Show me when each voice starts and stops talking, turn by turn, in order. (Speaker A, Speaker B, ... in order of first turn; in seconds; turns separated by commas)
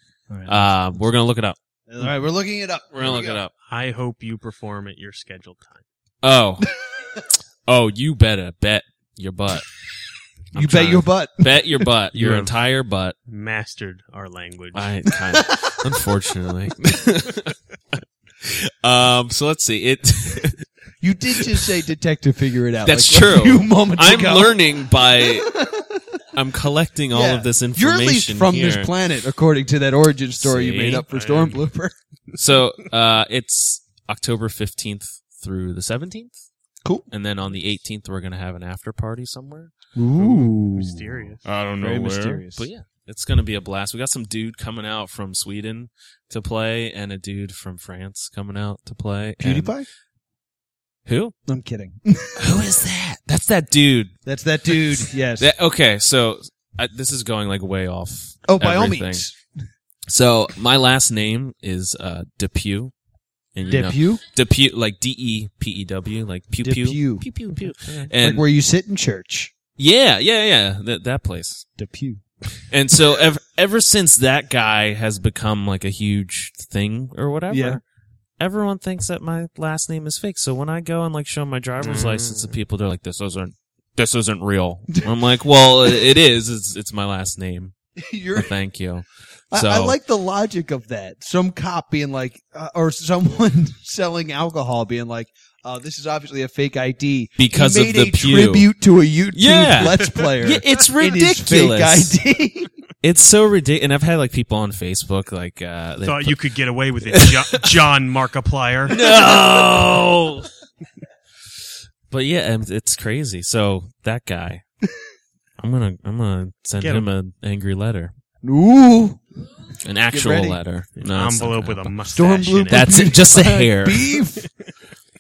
Speaker A: 0.3-0.7, Speaker B: 0.5-1.6, Speaker A: 1.9-3.4, Speaker B: 2.9-3.5, Speaker C: 3.6-5.8, Speaker B: 6.2-6.7, Speaker B: 7.7-9.7, Speaker B: 10.5-13.1, Speaker A: 10.5-11.7, Speaker C: 12.1-12.5, Speaker C: 13.3-14.9, Speaker B: 14.7-20.7, Speaker A: 15.2-15.8, Speaker A: 21.0-26.2, Speaker B: 22.8-25.6, Speaker B: 26.3-28.9, Speaker A: 27.1-31.9, Speaker B: 30.4-31.1, Speaker C: 31.1-31.6, Speaker B: 32.3-36.3, Speaker B: 37.1-39.7, Speaker A: 39.9-42.7, Speaker C: 40.1-41.4, Speaker B: 41.4-49.7, Speaker A: 49.4-49.9, Speaker B: 51.0-51.4, Speaker A: 51.5-52.6, Speaker B: 52.4-54.2, Speaker A: 54.2-55.5, Speaker B: 54.7-59.2, Speaker A: 58.5-59.4, Speaker B: 60.1-62.9, Speaker B: 63.5-68.4, Speaker A: 63.7-64.2, Speaker A: 66.6-67.3, Speaker A: 68.1-69.5, Speaker B: 69.8-71.7, Speaker A: 71.8-72.2, Speaker B: 72.7-77.8, Speaker A: 77.5-77.8, Speaker B: 78.4-87.7, Speaker C: 81.8-82.5, Speaker A: 88.0-88.5, Speaker B: 88.3-90.0, Speaker A: 89.5-102.7, Speaker B: 97.4-98.7, Speaker B: 99.3-102.2, Speaker C: 99.8-100.2, Speaker B: 103.0-106.4, Speaker C: 106.0-109.0, Speaker B: 107.1-107.7, Speaker B: 108.9-110.5, Speaker A: 109.0-109.9, Speaker B: 112.1-114.6, Speaker B: 115.6-118.1, Speaker C: 116.8-117.1, Speaker A: 118.4-119.2, Speaker B: 119.8-121.9, Speaker A: 120.1-120.6, Speaker C: 121.0-123.2, Speaker A: 122.1-124.5, Speaker B: 122.7-124.0